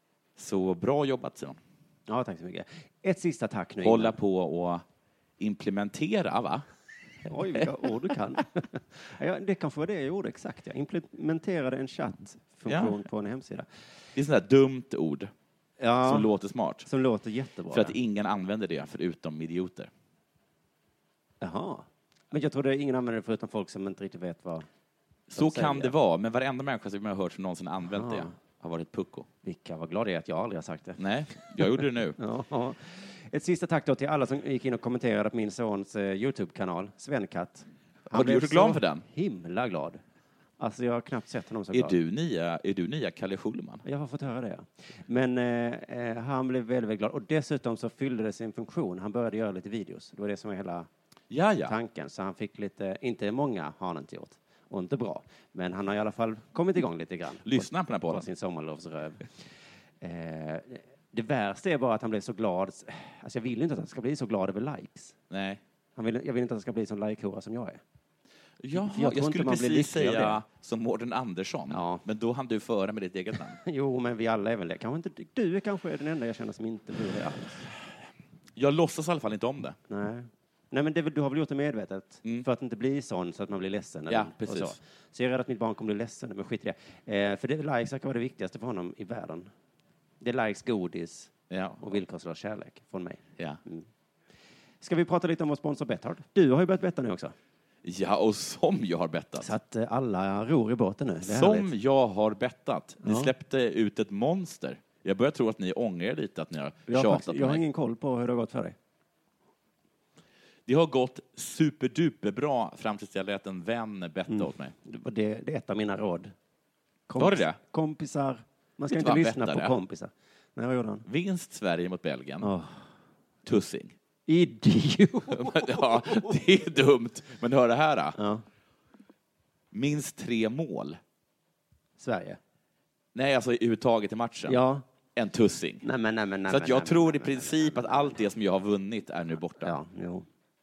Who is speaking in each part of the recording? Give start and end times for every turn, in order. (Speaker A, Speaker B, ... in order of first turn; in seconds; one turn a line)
Speaker A: 0.3-1.6
Speaker B: 2.1-4.2
Speaker A: 3.8-4.8
Speaker A: 5.4-6.7
Speaker B: 7.2-13.7
Speaker A: 7.3-7.7
Speaker A: 12.7-13.0
Speaker A: 14.1-15.3
Speaker B: 15.8-16.3
Speaker A: 16.0-16.9
Speaker B: 16.8-18.0
Speaker A: 17.7-19.9
Speaker B: 21.4-24.7
Speaker A: 25.3-29.3
Speaker B: 25.3-25.9
Speaker B: 27.8-28.3
Speaker B: 29.4-40.0
Speaker A: 31.0-32.2
Speaker A: 38.1-39.0
Speaker B: 40.6-41.9
Speaker A: 41.7-43.8
Speaker B: 43.8-50.9
Speaker A: 51.3-51.7
Speaker B: 51.6-59.4
Speaker A: 57.4-58.3
Speaker B: 60.0-65.2
Speaker A: 65.3-65.6
Speaker B: 66.0-67.8
Speaker A: 68.6-73.6
Speaker B: 68.7-70.4
Speaker B: 71.7-72.0
Speaker B: 73.6-77.5
Speaker A: 78.5-79.8
Speaker B: 79.9-89.5
Speaker A: 84.1-84.8
Speaker B: 90.2-93.9
Speaker A: 91.5-91.9
Speaker B: 94.8-97.3
Speaker A: 97.8-99.5
Speaker B: 99.4-101.7
Speaker A: 101.2-107.6
Speaker B: 103.0-103.3
Speaker B: 106.9-108.8
Speaker A: 110.7-114.7
Speaker B: 114.3-116.3
Speaker B: 117.1-121.0
Speaker A: 117.2-117.6
Speaker A: 118.9-119.7
Speaker A: 121.0-122.5
Speaker B: 122.4-122.8
Speaker A: 123.4-123.9
Speaker B: 124.3-126.3
Speaker A: 125.3-128.2
Speaker B: 128.2-128.4
Speaker A: 129.7-131.0
Speaker B: 132.0-132.4
Speaker A: 133.1-134.6
Speaker B: 134.5-134.8
Speaker A: 135.1-135.8
Speaker B: 135.8-138.2
Speaker A: 136.5-139.7
Speaker B: 139.6-140.3